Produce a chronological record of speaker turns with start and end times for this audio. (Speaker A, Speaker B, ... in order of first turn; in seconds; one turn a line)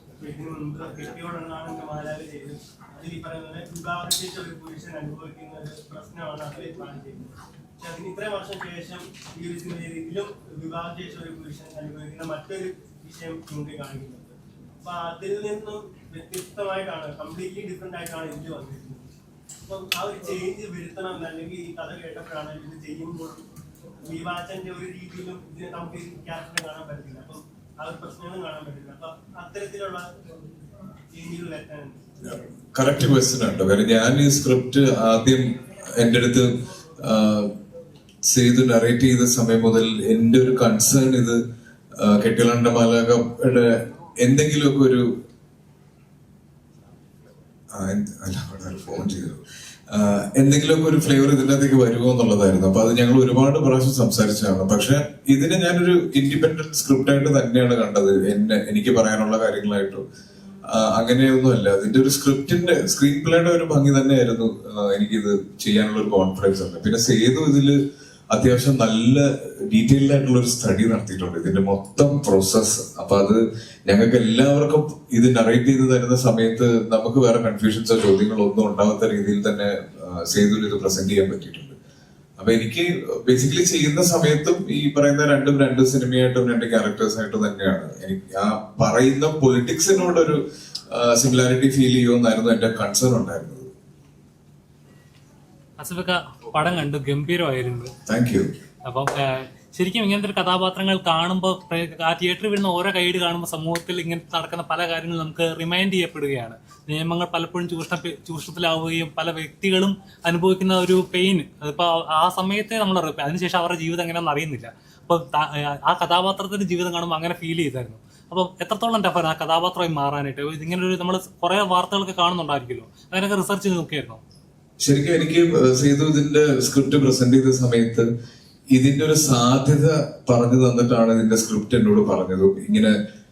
Speaker A: 0.2-19.1
Speaker A: 19.7-23.4
Speaker A: 24.0-30.1
Speaker A: 31.1-32.0
Speaker B: 32.2-37.5
Speaker B: 38.2-41.4
Speaker B: 42.0-45.1
Speaker B: 47.7-60.0
Speaker B: 60.7-67.8
Speaker B: 68.3-81.8
Speaker B: 82.4-93.7
Speaker C: 95.8-97.9
Speaker B: 98.0-98.5
Speaker C: 98.8-124.2
Speaker B: 124.8-128.1
Speaker B: 128.7-132.9